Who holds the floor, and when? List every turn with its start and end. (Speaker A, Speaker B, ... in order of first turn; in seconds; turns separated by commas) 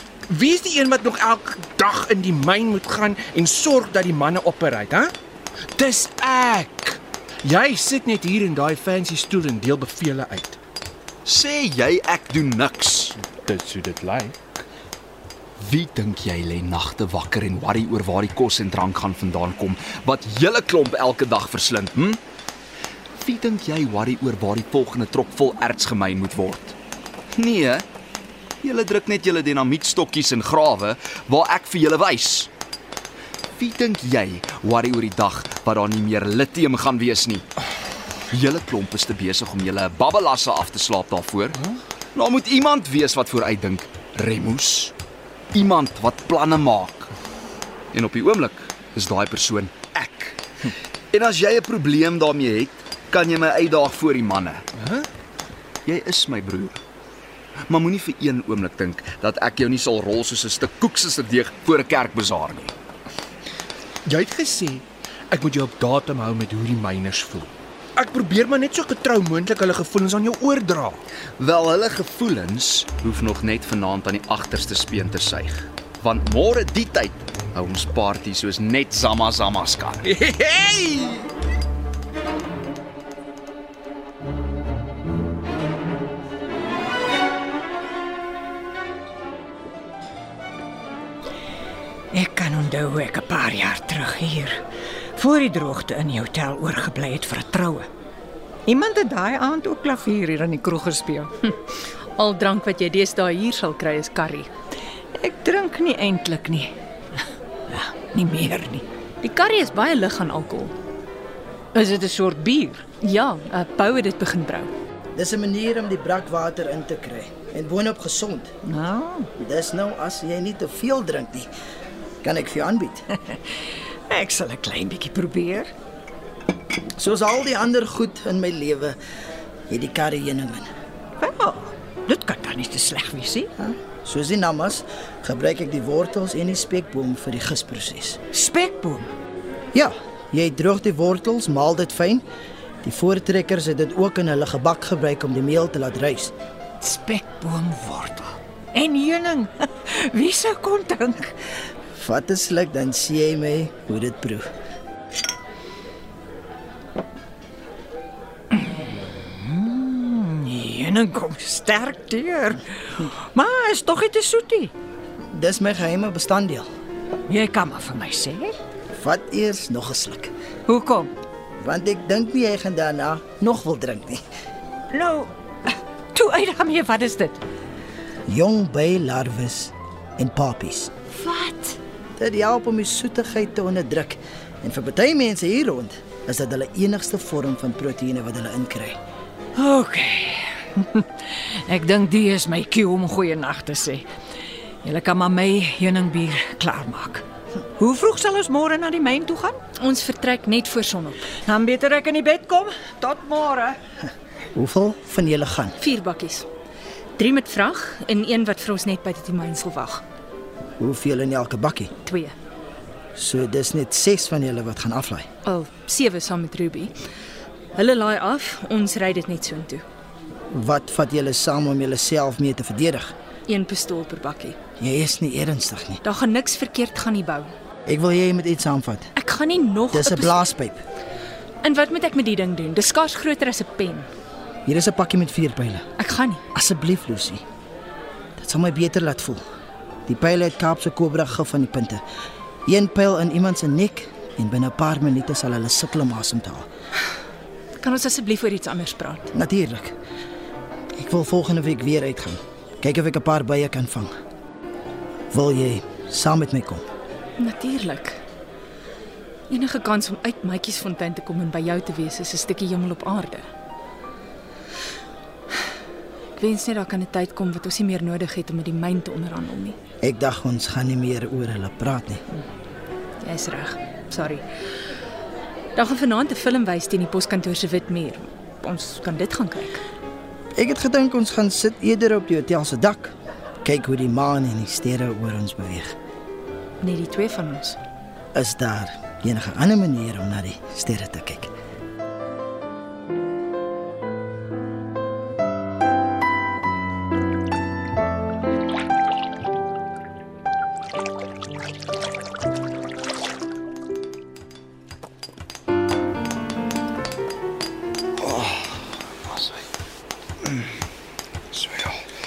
Speaker A: 0.3-5.1, Speaker A: 5.8-10.6, Speaker B: 11.2-13.2, Speaker A: 13.4-14.6, Speaker B: 15.6-22.2, Speaker B: 23.1-26.7, Speaker B: 27.3-27.8, Speaker B: 28.6-32.5, Speaker B: 33.5-37.5, Speaker B: 38.3-44.9, Speaker B: 45.5-47.1, Speaker B: 47.9-50.4, Speaker B: 51.1-54.6, Speaker A: 54.8-55.1, Speaker B: 55.8-56.8, Speaker B: 57.7-62.7, Speaker A: 64.0-71.0, Speaker B: 71.4-80.0, Speaker A: 80.0-81.3, Speaker C: 92.1-94.6, Speaker C: 95.1-97.9, Speaker C: 98.7-101.3, Speaker D: 102.2-104.5, Speaker C: 105.1-108.8, Speaker D: 109.2-110.7, Speaker C: 111.7-112.8, Speaker D: 113.0-114.7, Speaker E: 115.1-118.5, Speaker C: 118.6-119.3, Speaker E: 119.3-121.5, Speaker E: 122.2-123.1, Speaker C: 123.2-123.5, Speaker C: 124.1-125.7, Speaker E: 127.0-129.0, Speaker E: 129.7-130.7, Speaker C: 131.2-133.5, Speaker E: 133.6-138.2, Speaker C: 138.3-139.1, Speaker E: 139.7-142.2, Speaker E: 142.8-146.3, Speaker C: 146.8-151.4, Speaker E: 151.9-154.5, Speaker C: 158.5-164.7, Speaker E: 165.3-166.7, Speaker C: 167.2-168.5, Speaker E: 168.9-170.3, Speaker C: 170.7-171.1, Speaker E: 171.6-174.2, Speaker C: 174.9-177.4, Speaker E: 178.3-180.9, Speaker C: 181.1-181.8, Speaker E: 182.2-189.0, Speaker C: 189.5-194.1, Speaker C: 194.8-197.2, Speaker C: 197.8-199.6, Speaker D: 199.8-201.3, Speaker C: 201.4-203.8, Speaker E: 204.5-205.8, Speaker D: 205.8-206.5, Speaker D: 207.2-210.0, Speaker E: 210.8-211.9, Speaker D: 212.0-212.3, Speaker E: 213.2-215.3, Speaker D: 215.4-216.9, Speaker D: 217.7-219.8, Speaker E: 220.5-223.1, Speaker D: 223.5-224.6, Speaker E: 224.8-226.0, Speaker D: 226.0-227.5, Speaker E: 227.9-229.1, Speaker D: 229.1-230.4, Speaker E: 229.9-230.8, Speaker D: 231.6-234.1, Speaker E: 234.7-235.8, Speaker D: 236.0-236.4, Speaker E: 236.5-237.4, Speaker E: 238.4-239.4, Speaker E: 240.1-242.0, Speaker E: 242.7-246.7, Speaker D: 247.8-249.3, Speaker E: 249.3-249.9, Speaker E: 250.9-254.1, Speaker E: 255.3-256.8, Speaker D: 257.4-258.2, Speaker D: 259.5-263.4, Speaker D: 266.4-269.8, Speaker E: 270.0-272.2, Speaker D: 273.2-274.4, Speaker D: 275.8-279.8, Speaker E: 280.5-285.9, Speaker D: 286.8-287.8, Speaker E: 288.3-291.5, Speaker B: 308.2-309.6, Speaker B: 310.4-310.7, Speaker B: 311.5-312.0